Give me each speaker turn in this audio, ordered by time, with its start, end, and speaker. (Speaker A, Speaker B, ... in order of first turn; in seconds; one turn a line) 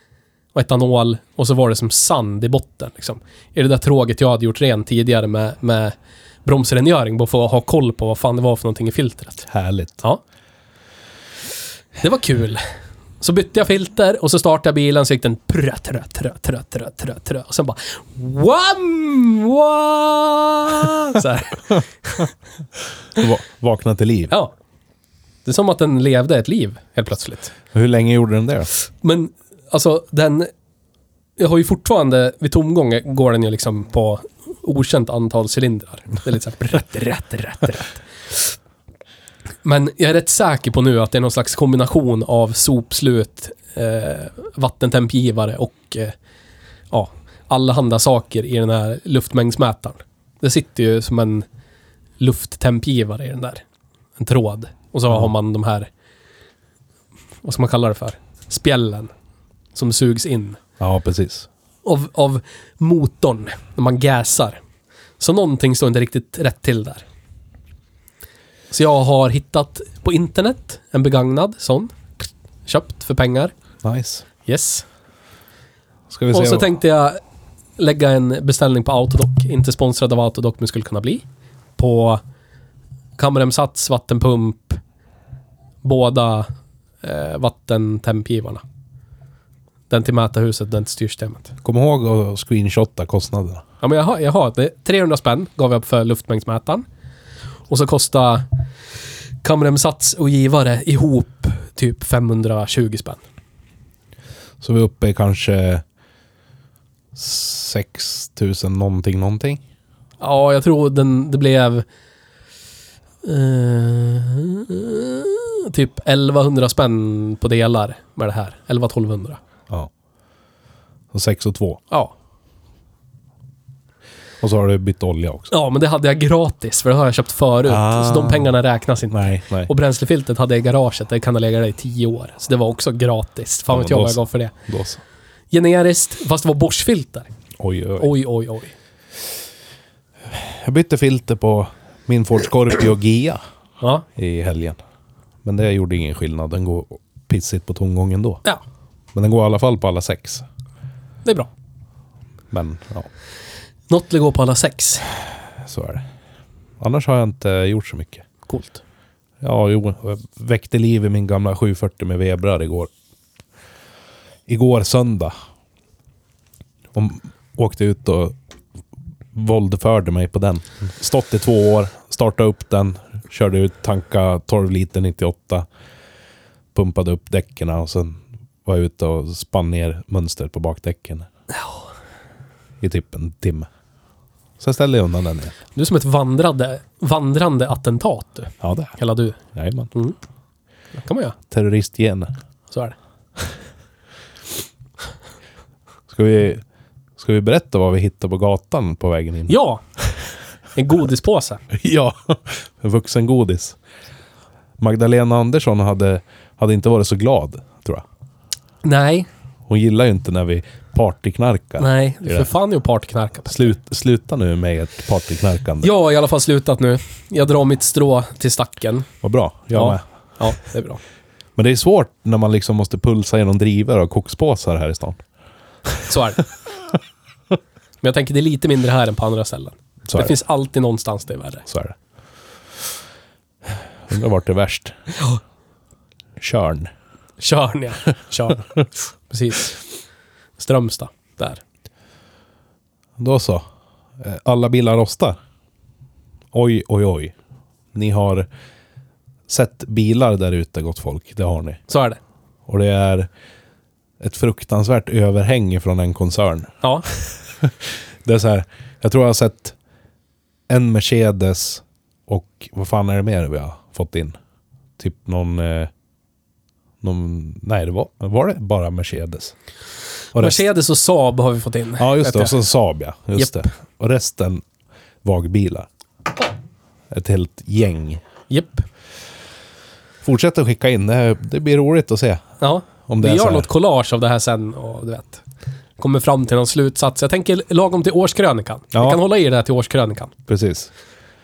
Speaker A: 0.5-9.5
Speaker B: 9.5-10.0
Speaker A: 12.0-12.6
Speaker A: 13.2-22.3
Speaker B: 23.1-24.3
Speaker A: 25.4-27.5
Speaker B: 27.7-28.7
Speaker A: 29.0-30.5
Speaker A: 31.4-38.5
Speaker A: 39.6-46.1
Speaker A: 46.9-51.5
Speaker A: 52.2-53.6
Speaker A: 54.2-55.9
Speaker A: 57.4-59.1
Speaker A: 59.7-60.6
Speaker B: 60.8-61.5
Speaker A: 61.8-64.6
Speaker A: 65.2-67.0
Speaker A: 68.7-73.5
Speaker B: 73.8-74.2
Speaker A: 74.4-74.8
Speaker B: 76.1-76.7
Speaker A: 76.3-77.2
Speaker A: 77.8-81.2
Speaker A: 81.8-82.2
Speaker A: 83.2-84.8
Speaker A: 85.8-86.5
Speaker A: 87.0-88.6
Speaker A: 89.9-91.5
Speaker B: 91.6-93.6
Speaker A: 93.8-96.8
Speaker A: 97.7-98.5
Speaker A: 99.4-103.2
Speaker B: 104.6-105.8
Speaker B: 107.1-109.6
Speaker A: 110.2-111.8
Speaker A: 113.2-119.4
Speaker B: 121.1-121.8
Speaker B: 124.4-125.5
Speaker A: 125.5-134.5
Speaker B: 127.7-128.5
Speaker B: 129.1-129.7
Speaker B: 133.7-135.0
Speaker A: 135.5-137.3
Speaker B: 137.6-138.1
Speaker A: 138.0-138.7
Speaker B: 140.3-143.4
Speaker B: 144.2-144.8
Speaker B: 145.4-148.4
Speaker B: 149.1-150.4
Speaker A: 151.2-151.5
Speaker B: 152.5-153.1
Speaker A: 153.9-155.0
Speaker B: 155.6-156.1
Speaker B: 156.8-158.2
Speaker A: 158.5-158.8
Speaker B: 159.4-162.9
Speaker B: 164.5-165.3
Speaker B: 166.9-168.3
Speaker B: 169.3-175.7
Speaker B: 176.7-181.3
Speaker B: 182.8-183.7
Speaker B: 184.6-185.5
Speaker A: 185.7-189.4
Speaker B: 188.6-188.9
Speaker B: 189.5-189.9
Speaker A: 190.9-191.4
Speaker B: 191.5-192.3
Speaker B: 196.1-196.6
Speaker B: 197.2-199.5
Speaker A: 199.5-199.8
Speaker A: 200.7-201.6
Speaker B: 201.7-203.8
Speaker B: 204.8-208.0
Speaker A: 208.8-209.3
Speaker B: 209.7-212.5
Speaker A: 211.8-213.7
Speaker B: 213.5-215.9
Speaker A: 215.8-219.1
Speaker B: 219.2-220.0
Speaker A: 219.7-221.0
Speaker B: 221.6-225.2
Speaker A: 226.1-226.4
Speaker A: 228.0-231.6
Speaker B: 230.1-230.3
Speaker B: 231.7-231.9
Speaker B: 234.1-235.0
Speaker B: 236.4-236.9
Speaker A: 237.4-239.8
Speaker A: 240.6-241.6
Speaker B: 243.2-243.7
Speaker B: 244.2-245.4
Speaker B: 246.5-247.3
Speaker B: 247.9-248.5
Speaker B: 249.5-251.8
Speaker A: 251.9-252.2
Speaker B: 252.7-253.3
Speaker B: 254.2-259.7
Speaker A: 256.8-257.1
Speaker B: 260.7-264.4
Speaker B: 265.0-265.9
Speaker B: 267.0-269.5
Speaker B: 270.3-270.6
Speaker A: 270.4-272.6
Speaker B: 272.0-274.6
Speaker B: 275.2-275.9
Speaker B: 277.1-278.2
Speaker A: 278.5-278.8
Speaker B: 280.2-283.7
Speaker A: 282.6-285.4
Speaker A: 286.0-290.3
Speaker B: 288.9-289.2
Speaker B: 290.5-290.9